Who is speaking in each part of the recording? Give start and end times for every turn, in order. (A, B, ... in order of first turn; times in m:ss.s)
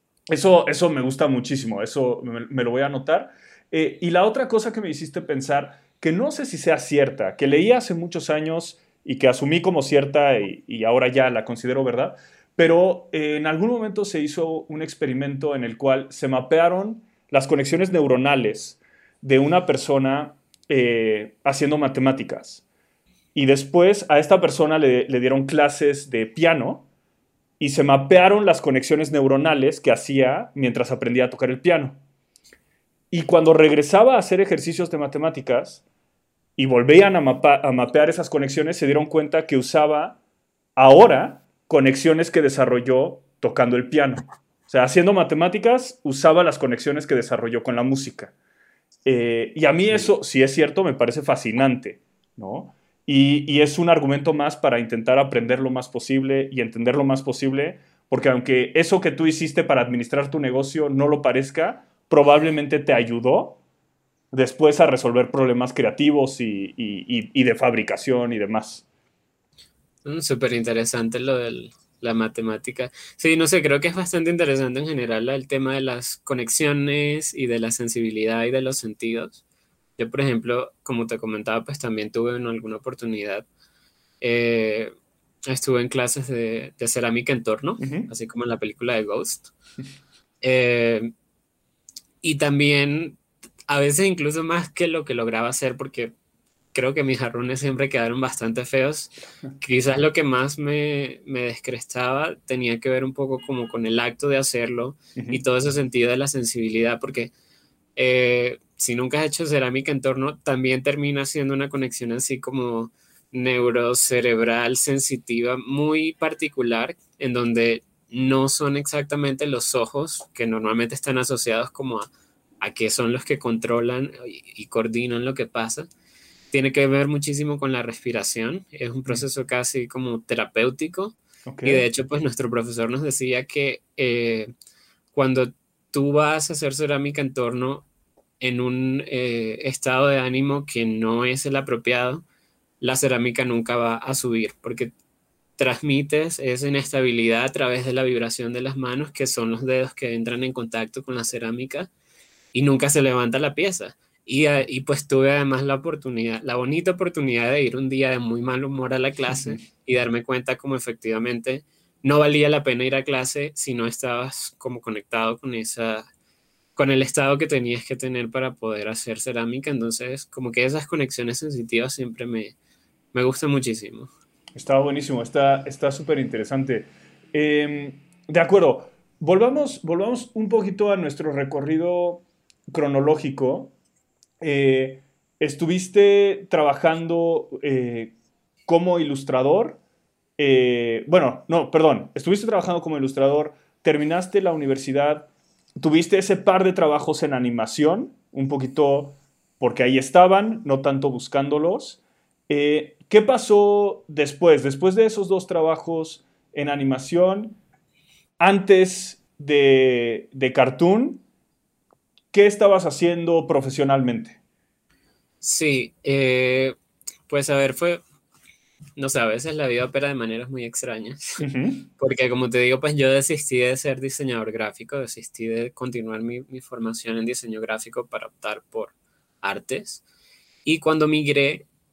0:00.3-0:22.6 A
0:23.4-0:26.9 A
0:27.6-0:32.0 A
0:33.1-0:35.8 A
0:36.6-0:40.2 A
0:40.8-0:48.3 A
0:49.1-1:03.6 A
1:04.3-1:08.8 A
1:10.0-1:19.4 B
1:20.0-1:23.5 B
1:24.2-1:24.9 B
1:25.5-1:29.5 B
1:27.8-1:28.1 A
1:30.4-1:31.1 B
1:32.2-1:36.1 B
1:36.7-1:47.3 B
1:45.2-1:45.4 A
1:48.0-2:02.1 B
2:02.6-2:05.9 B
2:06.5-2:14.5 B
2:11.5-2:11.9 A
2:15.1-2:17.9 B
2:18.4-2:22.2 B
2:22.8-2:24.9 B
2:25.6-2:31.9 B
2:32.5-2:46.1 B
2:39.3-2:39.6 A
2:46.8-2:52.6 B
2:53.1-2:54.1 B
2:54.5-3:03.7 A
3:04.4-3:08.1 A
3:08.7-3:09.8 A
3:10.4-3:27.6 A
3:28.4-3:31.2 A
3:32.3-3:34.4 A
3:35.4-3:36.8 B
3:37.3-3:38.0 B
3:39.0-3:41.5 B
3:41.4-3:41.9 A
3:42.0-3:50.0 B
3:50.6-3:51.7 B